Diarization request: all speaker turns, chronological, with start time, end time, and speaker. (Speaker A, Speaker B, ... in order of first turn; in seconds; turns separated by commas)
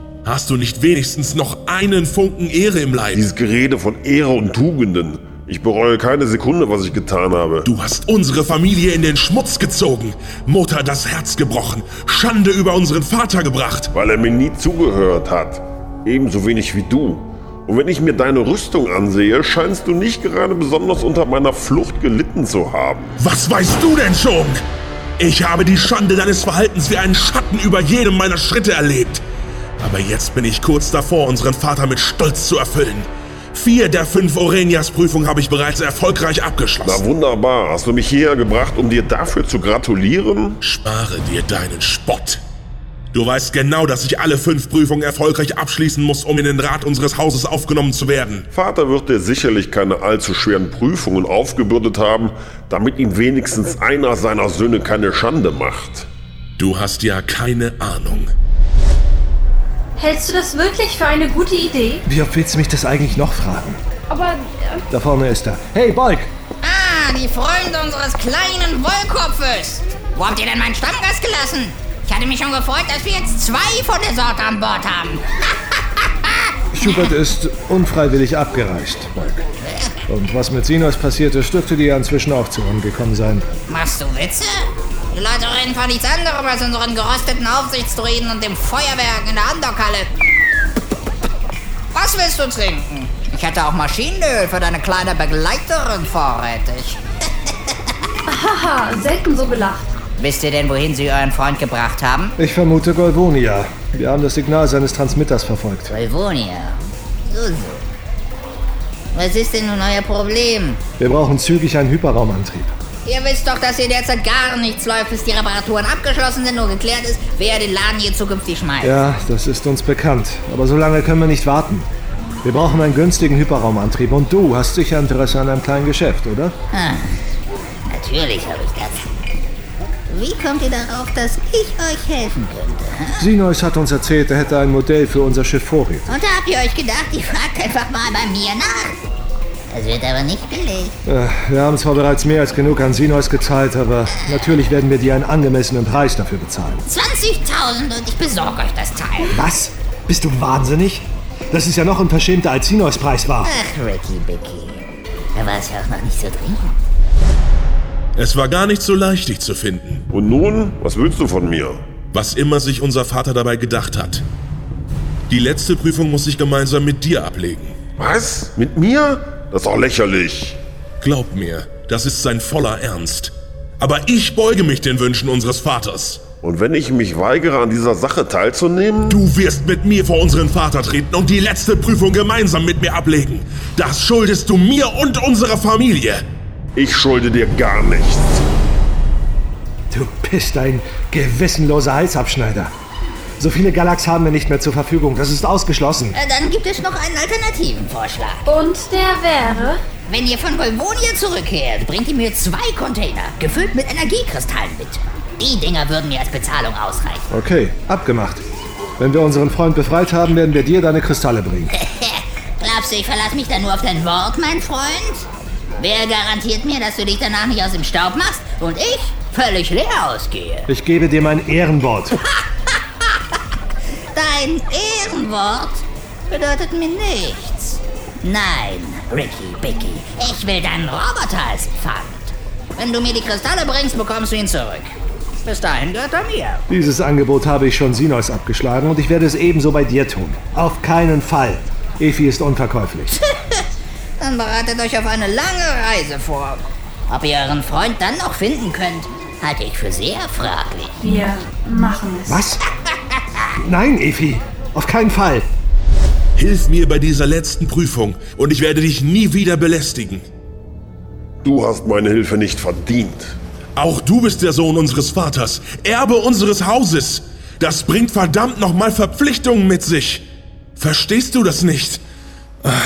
Speaker A: 0.2-3.2, Speaker B: 3.1-7.7, Speaker A: 7.7-13.9, Speaker B: 13.9-23.2, Speaker A: 23.2-24.6, Speaker A: 25.2-29.2, Speaker A: 29.8-37.0, Speaker B: 36.8-40.6, Speaker A: 40.6-42.4, Speaker A: 43.1-48.5, Speaker B: 48.5-56.1, Speaker A: 56.6-58.3, Speaker C: 60.0-62.0, Speaker D: 62.1-63.8, Speaker C: 64.1-64.8, Speaker D: 64.9-66.3, Speaker E: 66.6-75.3, Speaker E: 76.0-76.4, Speaker D: 76.7-79.5, Speaker E: 79.6-80.0, Speaker D: 80.1-83.5, Speaker E: 83.7-90.1, Speaker E: 91.9-97.0, Speaker C: 98.3-99.9, Speaker E: 100.2-102.3, Speaker D: 102.4-105.9, Speaker E: 105.9-107.9, Speaker E: 109.1-110.8, Speaker D: 111.0-112.8, Speaker E: 113.0-119.0, Speaker D: 118.8-121.9, Speaker D: 122.4-126.6, Speaker E: 126.7-127.2, Speaker E: 127.9-129.1, Speaker E: 130.1-133.2, Speaker D: 133.2-136.2, Speaker E: 136.1-138.9, Speaker E: 139.7-140.9, Speaker D: 141.1-146.8, Speaker E: 146.9-149.4, Speaker D: 149.3-153.5, Speaker E: 153.4-156.8, Speaker A: 158.2-160.0, Speaker B: 160.1-161.8, Speaker A: 162.1-164.2, Speaker A: 165.3-167.8, Speaker B: 168.0-170.6, Speaker A: 171.0-176.2, Speaker B: 176.4-179.2, Speaker A: 179.1-186.2, Speaker B: 186.8-188.4, Speaker D: 189.9-192.7, Speaker D: 193.4-196.2, Speaker E: 196.2-198.4, Speaker C: 198.5-199.8, Speaker E: 200.1-207.2, Speaker D: 207.3-208.5, Speaker D: 209.0-211.7, Speaker E: 211.8-215.3, Speaker E: 215.8-220.7, Speaker D: 220.7-222.2, Speaker E: 222.7-223.2, Speaker E: 224.1-236.6, Speaker D: 236.7-243.1, Speaker E: 243.1-243.6, Speaker E: 244.2-250.9, Speaker C: 251.0-252.4, Speaker D: 252.3-252.6, Speaker D: 253.6-255.5, Speaker A: 256.4-260.2, Speaker B: 261.4-263.4, Speaker A: 263.8-270.2, Speaker A: 270.8-272.0